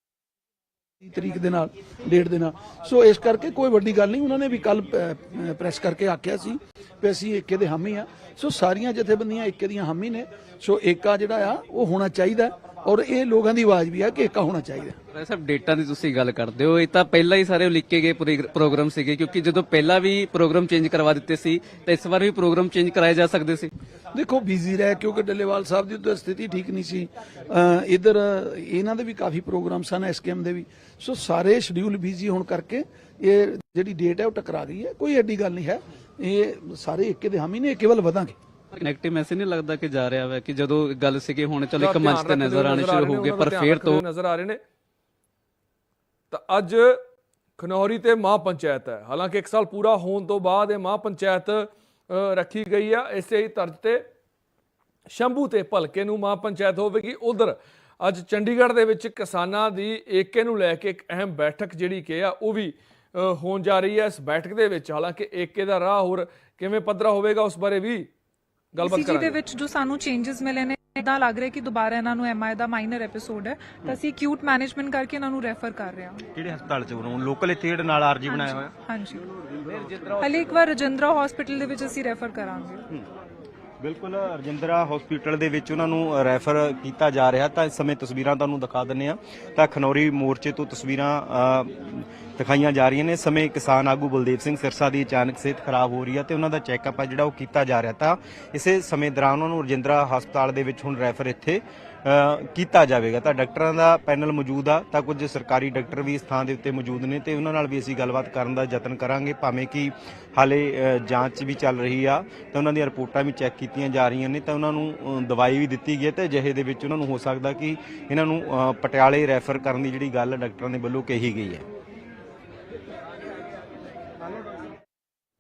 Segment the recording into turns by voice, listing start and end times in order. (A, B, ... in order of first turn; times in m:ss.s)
0:01.0-0:15.0 A
0:15.1-0:23.7 B
0:24.1-0:38.4 A
0:38.8-0:44.0 B
0:41.8-0:44.6 C
0:46.3-0:47.0 C
0:47.6-0:54.0 C
0:55.1-1:08.1 C
1:08.7-1:09.4 C
1:08.8-1:16.3 D
1:16.4-1:18.7 E
1:18.3-1:19.3 D
1:20.1-1:22.9 D
1:23.8-2:01.7 E